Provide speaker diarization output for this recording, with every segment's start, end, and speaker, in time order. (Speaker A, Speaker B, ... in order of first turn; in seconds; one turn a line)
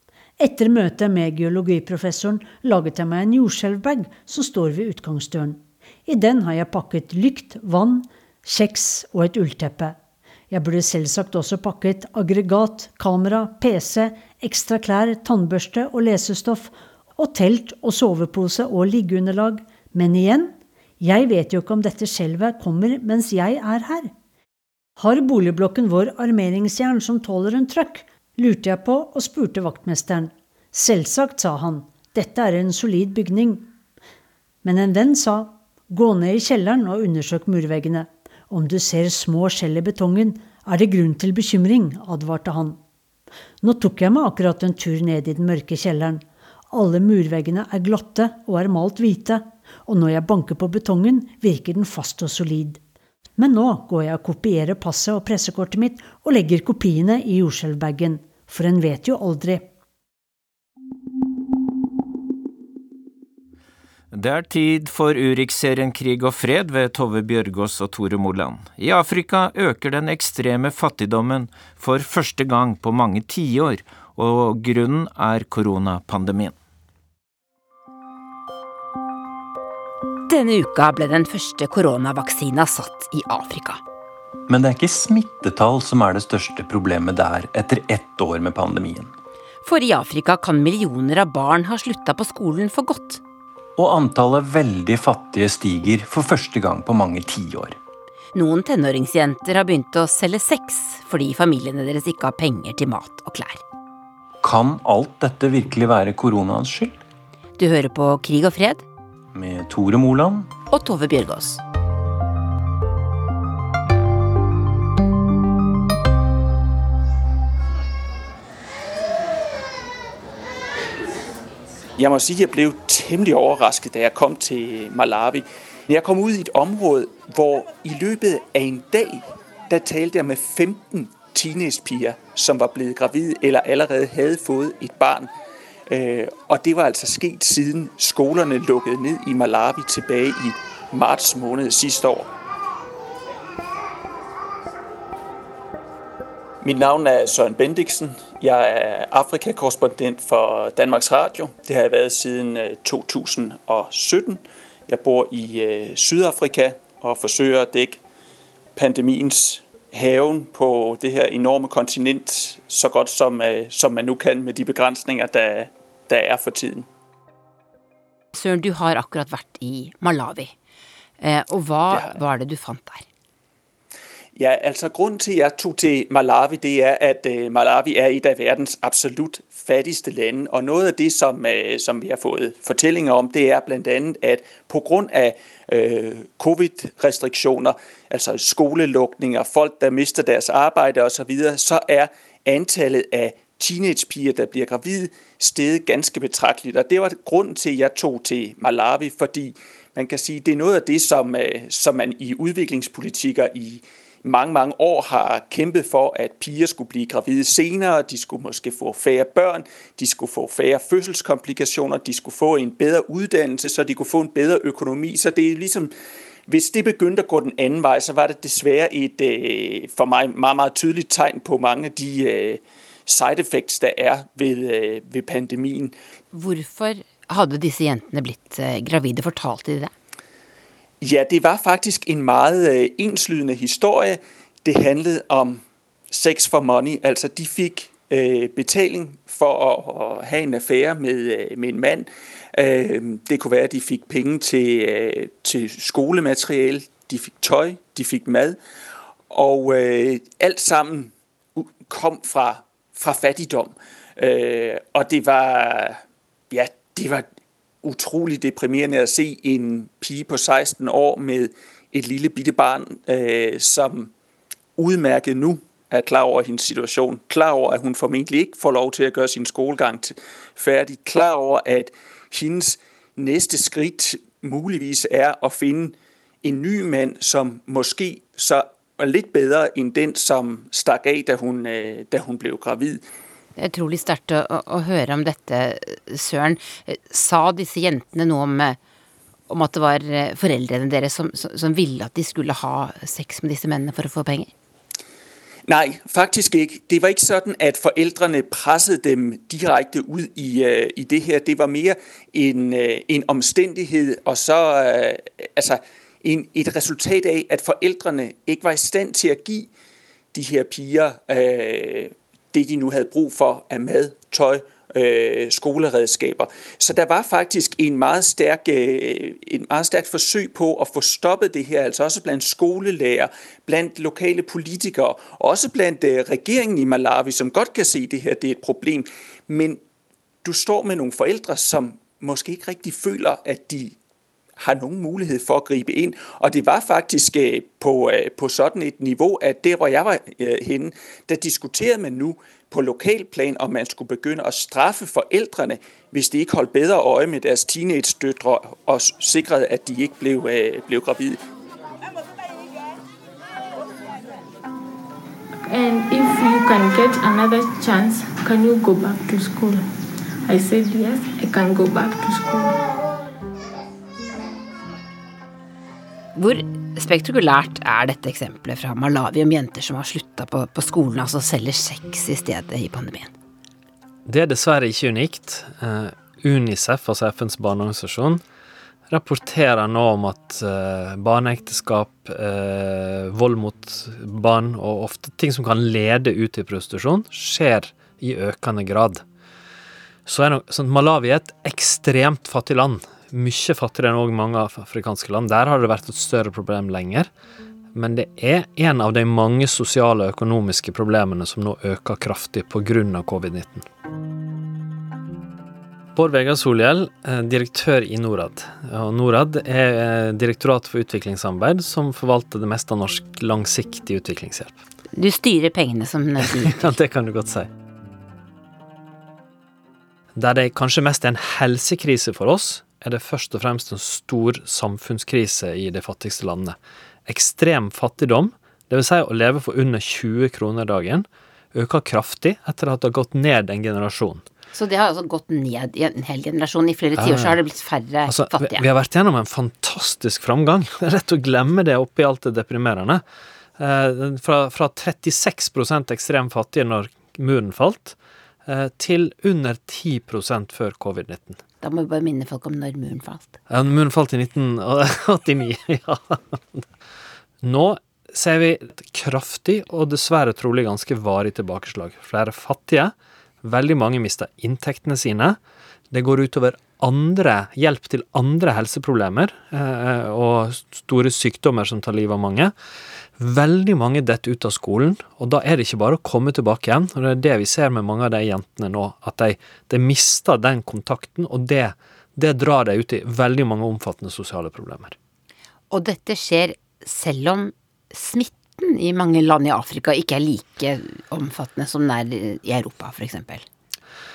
Speaker A: 0.4-10.0
Speaker A: 10.5-24.1
Speaker A: 25.0-33.7
Speaker A: 34.6-42.8
Speaker A: 43.6-52.8
Speaker A: 53.4-59.7
Speaker B: 64.1-76.5
Speaker C: 80.3-83.8
Speaker D: 84.5-89.1
Speaker C: 89.6-93.2
Speaker D: 93.8-97.8
Speaker C: 98.3-103.6
Speaker D: 104.4-107.0
Speaker C: 107.6-108.8
Speaker D: 109.3-110.5
Speaker C: 110.7-111.6
Speaker E: 122.0-135.3
Speaker E: 135.9-142.3
Speaker E: 146.6-158.0
Speaker E: 158.8-166.9
Speaker C: 168.3-170.5
Speaker C: 171.2-173.1
Speaker E: 174.4-215.9
Speaker E: 216.5-225.9
Speaker C: 226.3-229.9
Speaker E: 231.0-248.6
Speaker E: 249.3-256.0
Speaker E: 256.5-257.3
Speaker E: 257.8-264.1
Speaker E: 264.8-283.0
Speaker C: 283.6-288.8
Speaker C: 289.5-294.5
Speaker E: 295.7-309.7
Speaker E: 310.3-329.8
Speaker E: 330.4-333.9
Speaker E: 334.6-351.4
Speaker F: 355.6-359.9
Speaker F: 360.5-362.8
Speaker C: 366.4-373.3
Speaker G: 374.3-378.4
Speaker G: 379.1-389.2
Speaker G: 390.3-397.3
Speaker G: 397.9-403.9
Speaker G: 406.2-414.8
Speaker C: 415.1-416.9
Speaker G: 416.4-417.7
Speaker G: 420.4-434.5
Speaker C: 434.7-438.9
Speaker G: 437.2-437.6
Speaker G: 438.3-443.2
Speaker G: 443.8-451.6
Speaker C: 451.8-453.6
Speaker G: 453.7-456.9
Speaker G: 457.6-465.6
Speaker G: 466.1-472.7
Speaker G: 473.4-485.2
Speaker C: 485.9-493.6